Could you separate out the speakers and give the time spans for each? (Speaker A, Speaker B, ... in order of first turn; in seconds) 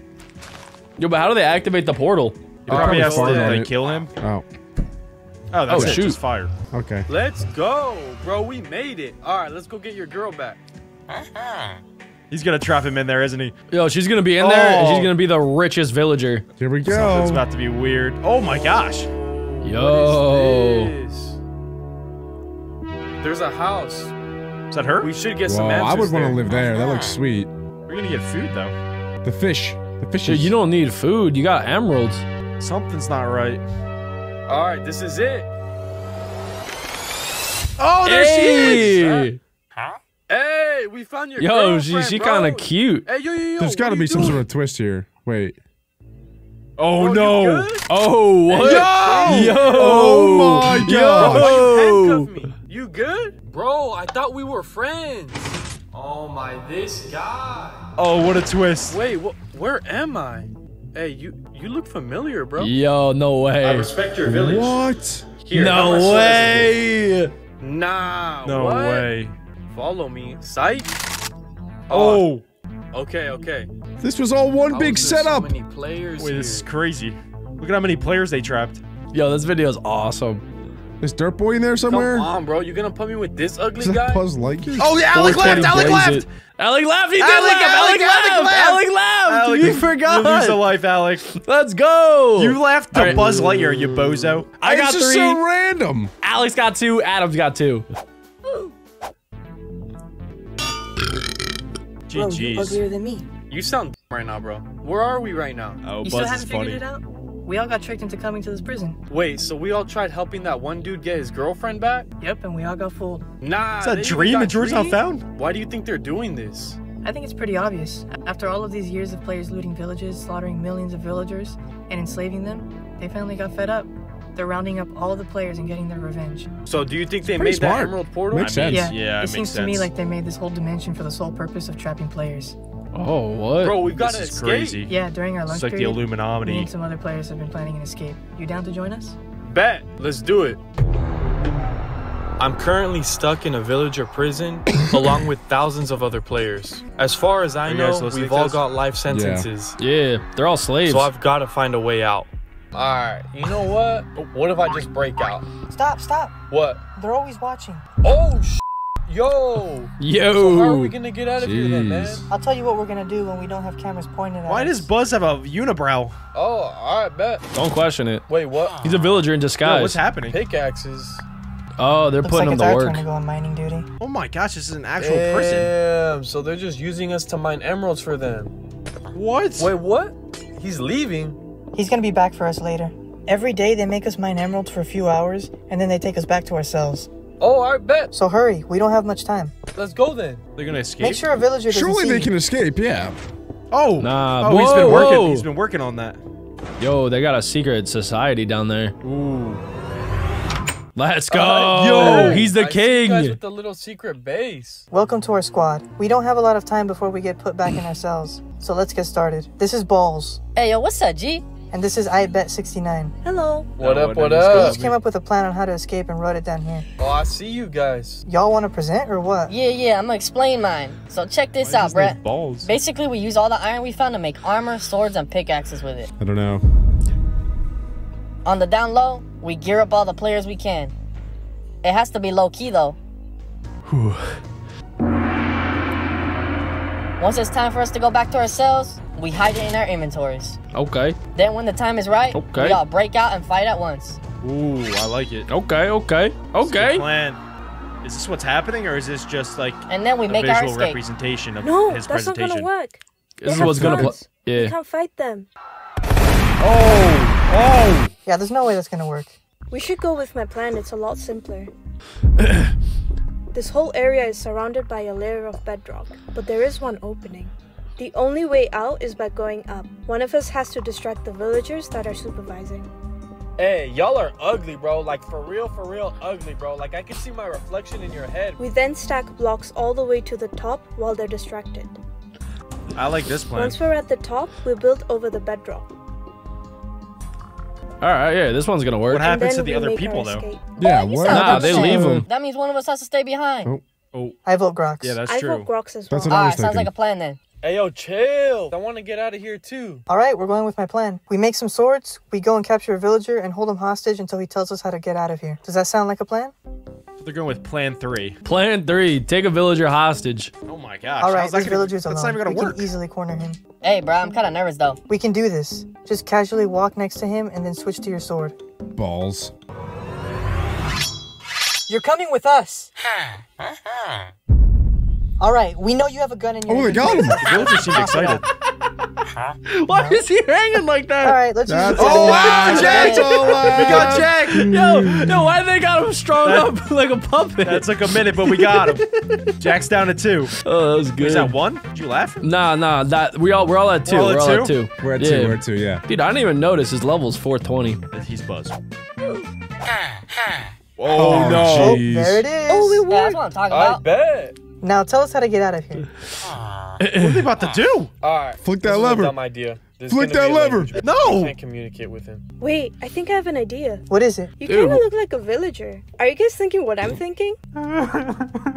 Speaker A: 1.0-2.4, 5.7-6.2, 13.7-16.4, 19.6-20.9, 30.2-32.2, 38.0-39.4, 41.4-43.0, 47.9-52.3, 62.6-63.9, 65.5-67.3, 79.1-80.4, 85.1-93.3, 96.2-97.8, 132.9-133.8, 149.8-151.1, 160.0-160.9, 167.5-168.2, 168.8-170.0, 171.8-173.0, 194.0-195.5, 196.8-198.9, 200.9-203.3, 233.9-234.4, 240.7-241.2, 242.3-242.8, 245.5-247.1, 253.4-254.7, 262.4-262.7, 288.0-289.3, 291.3-292.2, 308.4-310.5, 329.7-331.4, 334.3-339.5, 340.6-341.6, 342.4-348.0, 357.0-357.5, 364.6-365.0
Speaker B: 2.7-4.1, 5.5-6.5, 12.3-13.5, 14.4-15.1, 16.8-19.1, 24.7-25.1, 27.9-28.7, 32.6-33.6, 37.8-39.1, 46.8-47.7, 48.6-51.6, 58.0-59.0, 68.4-69.3, 71.9-72.4, 76.2-78.8, 84.8-86.3, 87.2-91.2, 92.3-95.4, 102.1-102.8, 105.8-106.8, 113.8-115.2, 128.3-129.9, 133.9-134.9, 135.4-136.7, 147.7-148.6, 164.4-166.1, 169.6-170.4, 174.0-175.7, 179.1-179.7, 190.6-191.2, 193.7-196.2, 199.0-199.6, 201.7-202.5, 213.8-215.0, 221.6-222.7, 244.4-245.5, 246.6-247.4, 248.0-252.7, 256.6-258.1, 282.9-283.8, 289.1-290.5, 295.0-295.7, 307.2-308.4, 310.7-312.9, 327.4-328.5, 331.9-334.6, 336.4-336.7, 337.6-339.0, 339.6-340.5, 341.2-342.4, 344.1-344.8, 348.1-348.8, 351.0-352.0, 357.1-358.1, 361.0-361.5
Speaker C: 2.7-4.4, 5.7-6.0, 6.7-7.0, 16.6-17.4, 25.4-27.5, 29.2-30.5, 43.6-45.6, 48.6-51.6, 64.2-65.3, 74.0-75.5, 81.0-82.3, 83.8-86.1, 92.9-96.1, 127.2-128.9, 149.1-149.4, 161.4-162.2, 191.7-193.2, 226.2-226.6, 253.5-254.2, 290.8-292.3, 296.1-296.9, 318.9-319.5, 326.7-327.5, 331.7-335.5, 345.0-346.0, 351.1-352.5, 358.6-359.4, 360.1-361.0
Speaker D: 2.7-3.8, 7.1-10.6, 19.1-21.4, 23.2-24.1, 25.0-26.6, 34.5-35.5, 38.5-39.2, 40.3-44.4, 46.9-47.9, 48.5-50.0, 51.1-57.9, 58.9-62.7, 63.6-64.8, 65.4-66.7, 67.6-69.1, 69.7-70.9, 71.9-72.3, 72.9-73.7, 74.7-76.7, 81.9-84.2, 103.5-105.8, 109.1-112.1, 113.4-116.8, 126.7-128.7, 133.6-134.8, 139.4-140.6, 142.4-149.8, 150.9-155.5, 156.5-156.8, 158.0-162.2, 166.3-167.4, 168.3-168.8, 170.3-171.2, 175.0-178.5, 179.6-181.4, 187.4-188.1, 189.7-190.4, 201.3-204.8, 213.8-214.8, 217.0-218.2, 273.6-278.6, 297.6-300.0, 353.7-354.6, 358.2-362.4
Speaker E: 102.1-103.3, 106.0-109.0, 112.2-113.2, 117.0-126.5, 128.7-132.6, 134.9-139.2, 155.7-156.3, 156.9-157.8, 162.3-164.9, 172.2-173.9, 181.7-187.1, 188.1-189.5, 191.0-192.3, 204.9-210.4, 211.7-213.2, 214.5-216.8, 218.2-219.5, 258.2-259.4, 294.4-295.2, 300.1-306.5, 311.2-313.6, 315.1-318.6, 321.9-322.9, 325.4-328.4, 329.9-330.2, 331.2-333.7, 351.3-353.0, 354.8-356.1, 364.1-364.5
Speaker F: 210.6-211.4, 219.5-226.1, 228.4-230.9, 231.8-233.0, 237.2-240.6, 241.3-244.2, 249.9-251.0, 291.4-293.7, 296.3-297.4, 313.8-315.0, 332.7-333.5, 352.9-354.0
Speaker G: 213.2-213.7, 251.6-255.5, 259.7-261.7, 263.5-272.9, 278.6-282.0, 283.5-285.9, 289.2-291.8, 295.2-296.4, 362.6-364.0, 364.6-367.6